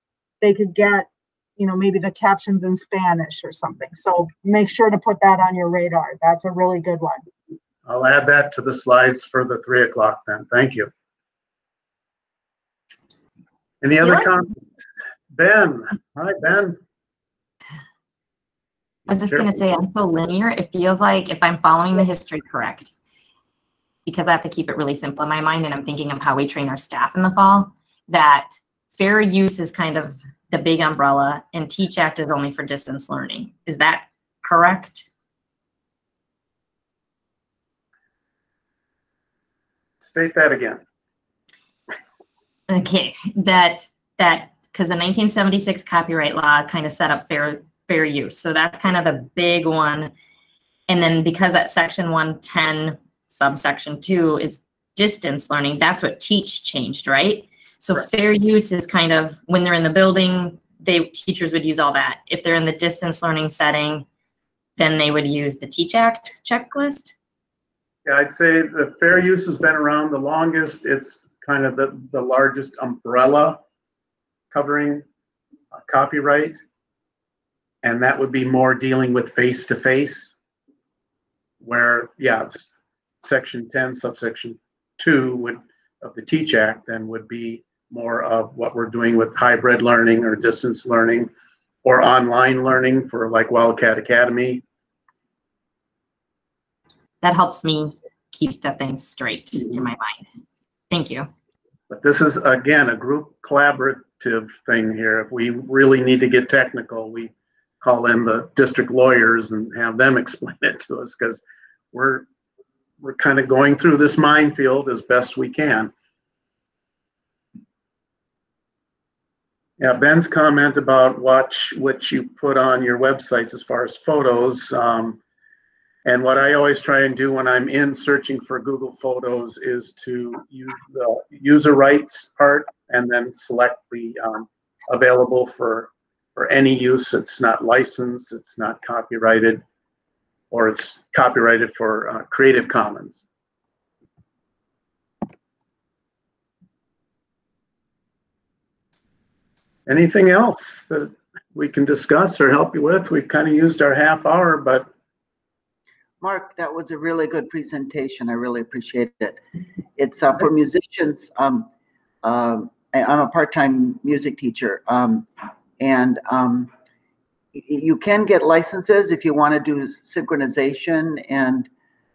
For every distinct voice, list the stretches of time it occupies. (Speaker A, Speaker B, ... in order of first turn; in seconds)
Speaker A: 0.4-7.2
Speaker B: 7.8-10.9, 13.8-14.5, 15.3-16.8, 40.0-40.8, 68.0-73.6, 74.5-75.0, 75.7-76.6, 77.8-80.3, 81.6-82.7, 83.2-91.3, 91.8-94.6, 101.9-111.4, 111.9-112.2, 113.0-115.9, 119.8-125.2, 126.0-139.6, 140.5-143.2, 149.9-154.9
Speaker C: 19.1-22.9, 24.1-35.0, 42.7-50.1, 50.9-64.0, 64.8-67.1, 97.2-100.2, 100.9-101.3
Speaker D: 156.2-159.4, 160.0-161.7, 162.2-165.3, 165.8-166.7, 167.5-171.7